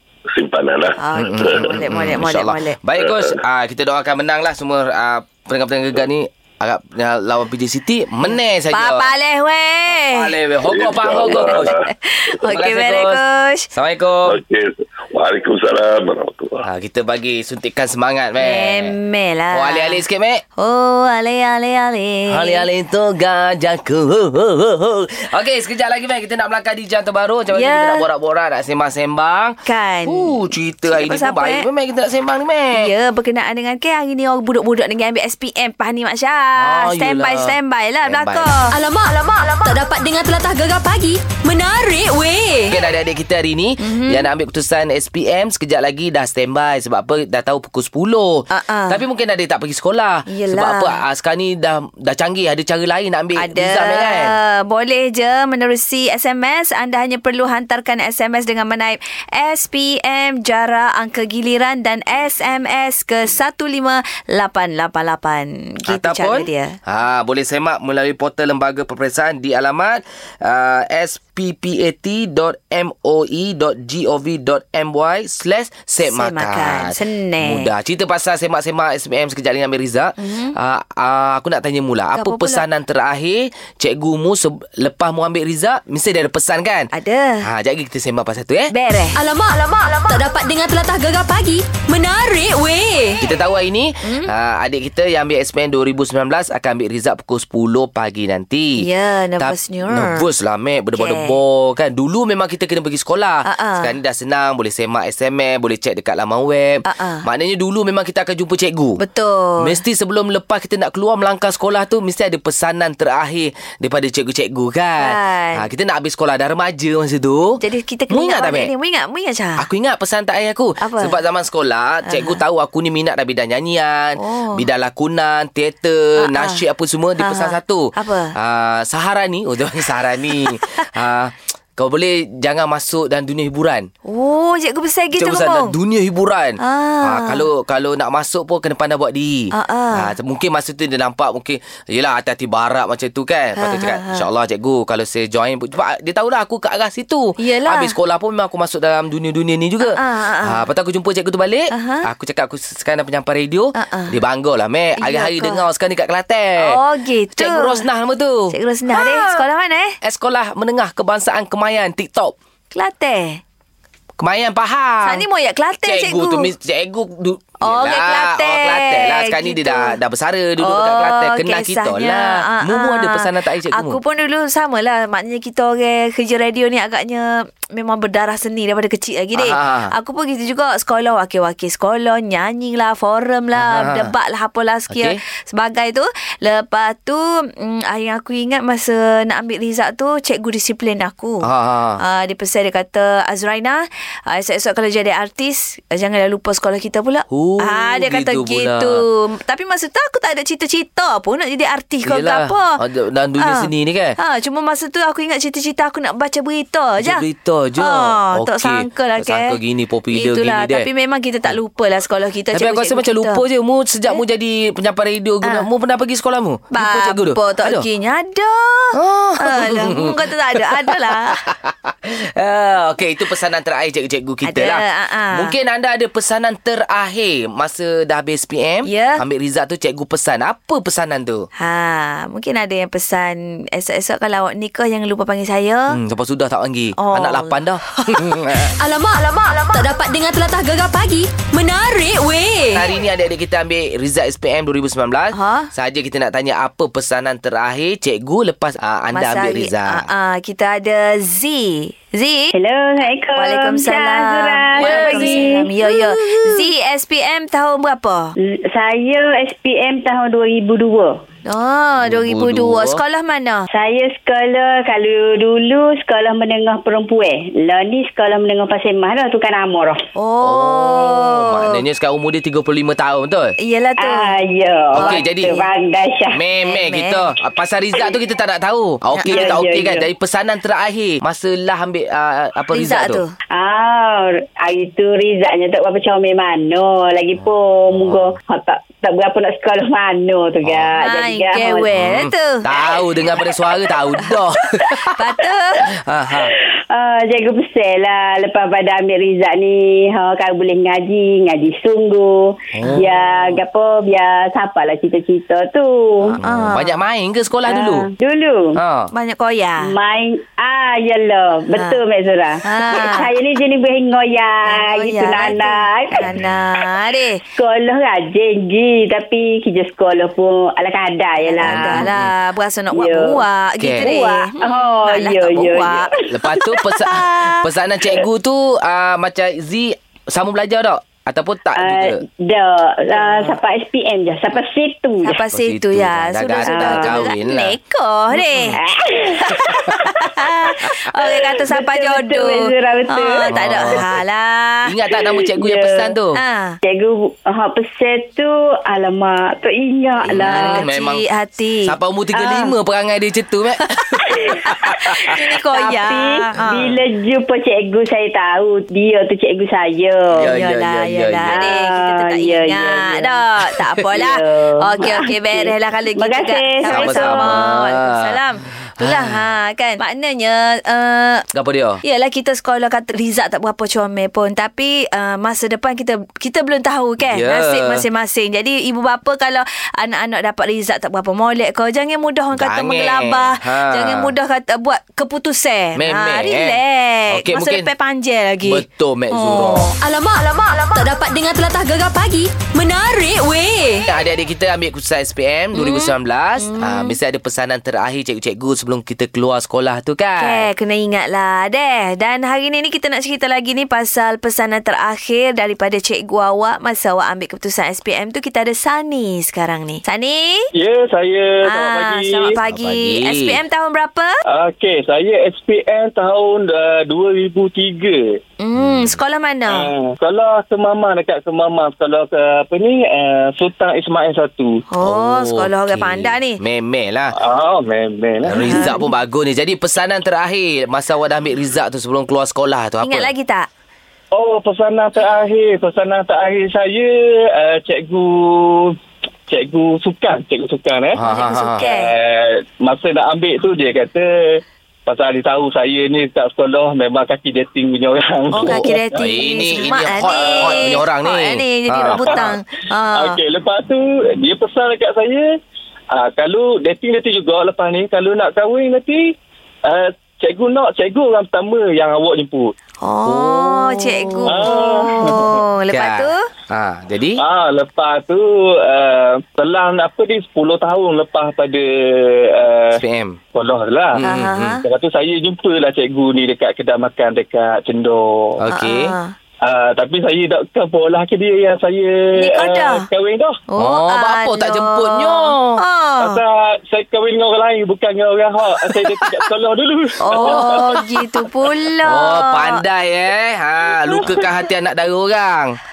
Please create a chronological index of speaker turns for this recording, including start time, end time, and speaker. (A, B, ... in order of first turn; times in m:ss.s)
0:00.3-0:00.9 A
0:01.0-0:02.8 B
0:01.1-0:09.1 C
0:08.2-0:10.3 B
0:09.9-0:11.8 C
0:10.7-0:11.7 A
0:11.3-0:13.7 B
0:12.4-0:13.2 C
0:13.7-0:14.4 C
0:14.3-0:16.6 A
0:16.6-0:18.9 C
0:18.4-0:20.0 B
0:19.5-0:20.4 C
0:20.6-0:22.6 B
0:22.3-0:32.9 C
0:27.5-0:28.0 B
0:29.6-0:31.7 B
0:32.7-0:38.7 B
0:36.6-0:38.5 C
0:38.7-0:42.7 D
0:42.7-0:54.4 C
0:43.8-0:44.3 B
0:48.5-0:49.0 B
0:50.3-0:51.0 B
0:53.4-1:06.8 B
1:05.8-1:26.9 C
1:16.0-1:17.7 B
1:20.2-1:20.5 B
1:22.2-1:22.6 B
1:26.9-1:27.4 B
1:27.4-1:28.7 C
1:28.7-1:29.2 B
1:29.1-1:33.2 D
1:33.2-1:38.9 C
1:34.0-1:34.3 B
1:38.8-1:40.2 B
1:39.4-1:49.0 C
1:40.9-1:41.4 B
1:43.4-1:43.9 B
1:46.9-1:47.2 B
1:49.0-1:49.7 B
1:49.6-1:58.7 C
1:55.0-1:55.6 B
1:57.6-1:59.6 B
1:59.6-2:13.9 C
2:00.8-2:01.1 B
2:02.0-2:02.4 B
2:04.2-2:04.6 B
2:06.2-2:06.6 B
2:07.2-2:08.3 B
2:14.0-2:15.7 B
2:15.2-2:36.8 C
2:16.6-2:17.4 B
2:19.5-2:20.1 B
2:23.6-2:24.2 B
2:27.4-2:27.9 B
2:29.8-2:30.6 B
2:31.7-2:32.0 B
2:33.8-2:34.2 B
2:35.0-2:35.6 B
2:36.6-2:37.8 B
2:37.4-2:39.4 C
2:38.5-2:40.0 B
2:40.0-2:42.3 C
2:42.7-2:43.4 B
2:44.2-2:45.2 C
2:45.0-2:46.5 B
2:45.8-2:54.0 C
2:47.6-2:49.9 B
2:50.6-3:11.4 B
2:59.3-2:59.9 C
3:03.6-3:04.1 C
3:04.9-3:05.2 C
3:11.4-3:12.0 C
3:12.0-3:22.7 B
3:17.3-3:19.0 C
3:22.0-3:24.2 C
3:23.4-3:27.2 B
3:27.0-3:30.9 C
3:27.8-3:29.6 B
3:30.1-3:33.4 B
3:32.5-3:37.9 C
3:36.7-3:41.4 B
3:38.9-3:51.5 C
3:44.4-3:45.5 B
3:48.9-3:49.2 B
3:51.6-3:55.9 B
3:55.9-3:58.7 C
3:57.0-3:58.6 B
3:58.8-4:02.8 D
4:02.7-4:10.1 C
4:05.3-4:05.7 B
4:09.1-4:18.3 B
4:12.6-4:15.7 E
4:14.8-4:16.7 C
4:18.7-4:21.1 E
4:21.4-4:23.7 B
4:22.0-4:23.0 C
4:23.7-4:30.0 E
4:30.2-4:31.8 B
4:30.4-4:33.5 C
4:33.6-4:34.3 B
4:34.0-4:36.4 E
4:34.9-4:35.6 C
4:35.0-4:35.5 B
4:36.3-4:43.2 C
4:36.6-4:37.3 B
4:39.1-4:39.6 B
4:39.3-4:40.0 E
4:42.7-4:43.3 B
4:43.5-4:51.9 E
4:47.4-4:48.3 C
4:50.6-4:50.9 C
4:51.0-4:52.6 B
4:51.9-4:55.1 C
4:55.1-4:55.8 B
4:55.8-4:56.5 C
4:56.9-5:06.4 E
5:02.7-5:03.6 C
5:06.2-5:07.0 B
5:06.4-5:08.1 C
5:07.7-5:08.7 E
5:08.7-5:09.1 C
5:09.1-5:09.9 B
5:09.8-5:16.3 E
5:12.6-5:13.3 B
5:14.7-5:17.4 B
5:17.6-5:22.1 E
5:21.4-5:26.1 B
5:21.6-5:22.3 C
5:22.9-5:23.4 E
5:23.8-5:24.1 C
5:24.0-5:26.6 E
5:25.5-5:32.2 C
5:27.1-5:27.6 B
5:31.8-5:35.3 E
5:33.2-5:33.5 B
5:35.2-5:38.8 B
5:35.5-5:37.8 C
5:36.6-5:37.2 E
5:38.7-5:40.0 E
5:39.4-5:44.8 B
5:39.6-5:40.1 C
5:41.6-5:44.0 E
5:43.5-5:44.2 C
5:44.8-5:46.4 C
5:45.5-5:46.0 E
5:46.4-5:46.8 B
5:46.8-5:50.8 E
5:50.2-5:51.2 C
5:50.4-5:52.7 B
5:51.8-5:55.3 C
5:54.4-5:54.8 E
5:55.0-5:56.9 B
5:55.7-6:00.5 E
6:00.3-6:01.7 C
6:00.4-6:11.4 B
6:01.5-6:03.4 E
6:04.1-6:07.6 E
6:06.8-6:08.4 C
6:09.0-6:09.4 C
6:11.5-6:12.0 C
6:12.0-6:29.9 B
6:17.2-6:18.1 C
6:22.5-6:24.4 C
6:26.0-6:27.9 C
6:28.6-6:29.9 C
6:30.0-6:34.0 D
6:34.1-6:40.7 C
6:35.7-6:37.2 B
6:40.4-6:50.5 B
6:50.8-6:52.5 F
6:51.7-6:54.3 B
6:52.6-6:53.6 C
6:54.5-6:58.4 F
6:58.6-6:59.9 B
6:58.7-6:59.2 C
6:59.7-7:04.8 F
7:04.9-7:06.6 B
7:05.0-7:07.3 C
7:07.3-7:08.9 F
7:08.4-7:13.3 C
7:08.6-7:09.0 B
7:13.0-7:13.7 B
7:14.3-7:18.9 F
7:19.5-7:21.2 F
7:21.2-7:21.8 C
7:21.2-7:22.1 B
7:21.8-7:30.8 F
7:28.5-7:32.6 C
7:28.5-7:33.4 B
7:32.1-7:32.4 F
7:33.1-7:35.4 F
7:36.1-7:39.3 F
7:39.9-7:42.7 F
7:43.0-7:46.4 B
7:43.2-7:44.7 C
7:44.4-7:45.6 F
7:45.9-7:47.4 C
7:47.4-7:53.0 F
7:52.9-7:53.4 C
7:53.5-7:54.2 F
7:54.2-7:54.8 C
7:54.2-7:54.8 B
7:54.8-7:58.6 F
7:58.6-7:59.2 C
7:58.7-7:59.3 B
7:59.6-8:03.5 F
8:02.4-8:03.0 B
8:03.7-8:06.4 B
8:03.8-8:05.8 C
8:06.2-8:10.8 F
8:10.2-8:12.8 B
8:10.3-8:11.0 C
8:12.0-8:15.8 C